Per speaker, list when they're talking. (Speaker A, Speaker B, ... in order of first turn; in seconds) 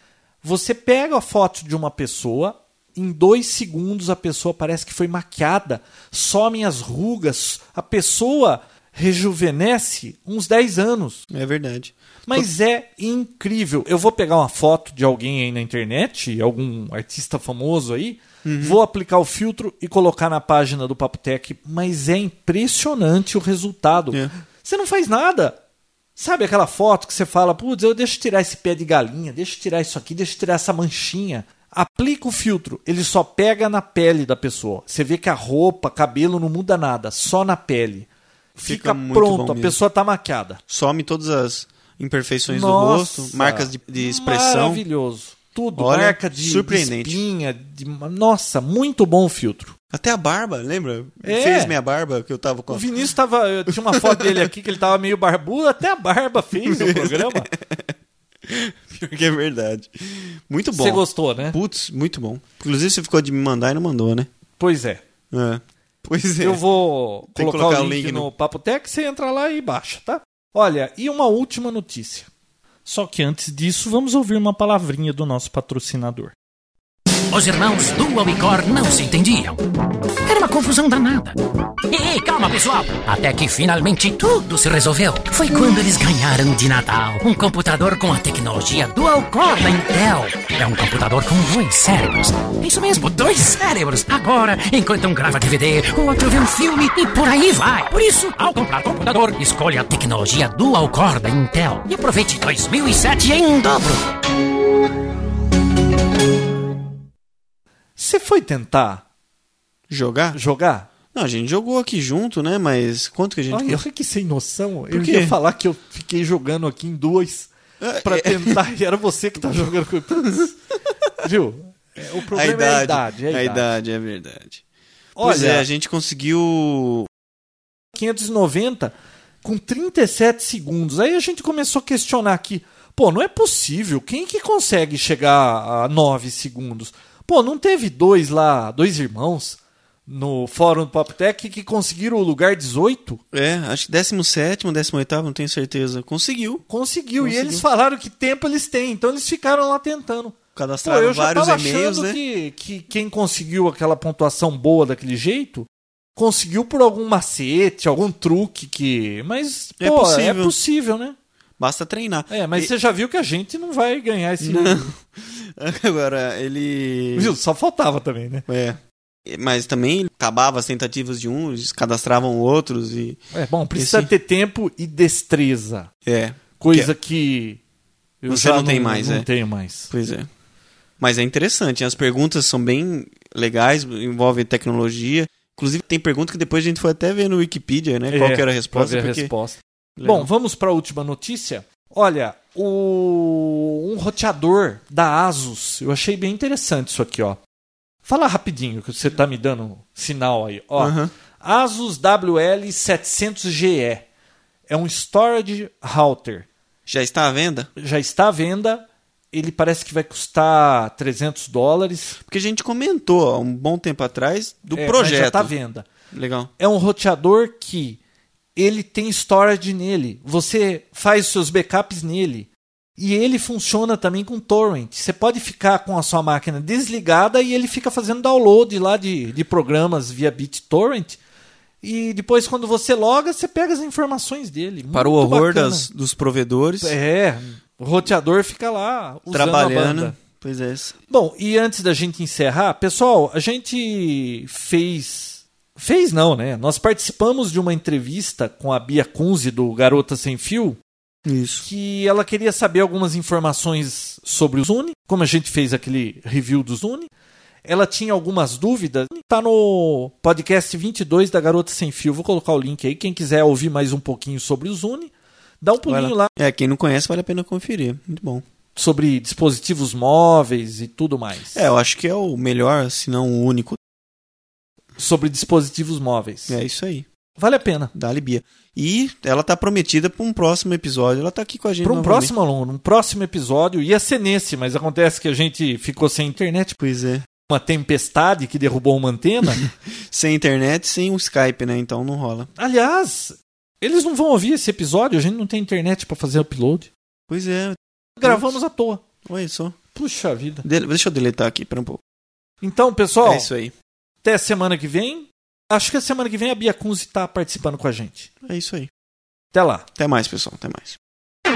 Speaker A: 0.4-11.2, 12.2-25.6, 26.1-40.6, 42.5-49.7, 51.2-51.8, 52.7-57.5, 60.7-61.6, 64.6-65.0, 66.4-72.3, 72.8-76.3, 108.0-109.0, 110.3-110.9, 113.5-117.5, 118.0-120.5, 121.2-123.7, 125.2-125.7, 127.9-143.2, 146.7-161.2, 162.3-164.9, 167.2-168.4, 173.3-175.9, 176.6-177.6, 178.2-179.9, 188.1-197.4, 198.0-204.1, 204.7-206.5, 207.8-212.2, 214.7-215.9, 216.6-218.0, 218.6-231.2, 231.8-235.9, 236.8-240.1, 241.1-250.8, 251.6-257.1, 257.6-266.3, 268.8-271.6, 275.0-276.6, 277.4-277.9, 281.8-286.8, 287.5-289.6, 292.6-296.9, 298.2-299.0, 299.9-300.6, 302.6-303.5, 304.2-308.3, 309.5-309.9
Speaker B: 11.3-12.5, 18.4-18.8, 38.6-39.8, 40.7-44.8, 45.7-47.2, 49.9-52.9, 53.9-54.4, 56.6-57.9, 58.5-64.3, 65.3-66.6, 67.2-68.3, 109.9-110.4, 111.1-113.8, 114.9-115.3, 117.8-118.6, 120.1-120.5, 122.3-124.6, 125.2-127.1, 143.3-146.6, 147.2-147.6, 150.5-152.2, 159.8-160.5, 161.6-162.7, 164.4-167.3, 168.5-173.2, 173.7-174.1, 176.1-176.9, 178.3-179.2, 179.9-180.3, 181.0-189.3, 190.0-190.3, 200.8-201.1, 206.9-207.7, 212.2-215.5, 216.1-216.5, 234.9-237.0, 239.3-240.9, 251.2-251.6, 265.9-268.4, 271.5-273.8, 276.5-277.1, 277.9-282.3, 286.8-287.2, 289.6-292.5, 297.3-298.5, 299.2-299.8, 300.6-302.0, 303.2-303.7, 308.4-308.9, 310.0-311.0
Speaker C: 77.3-79.6, 80.2-81.3, 81.9-104.1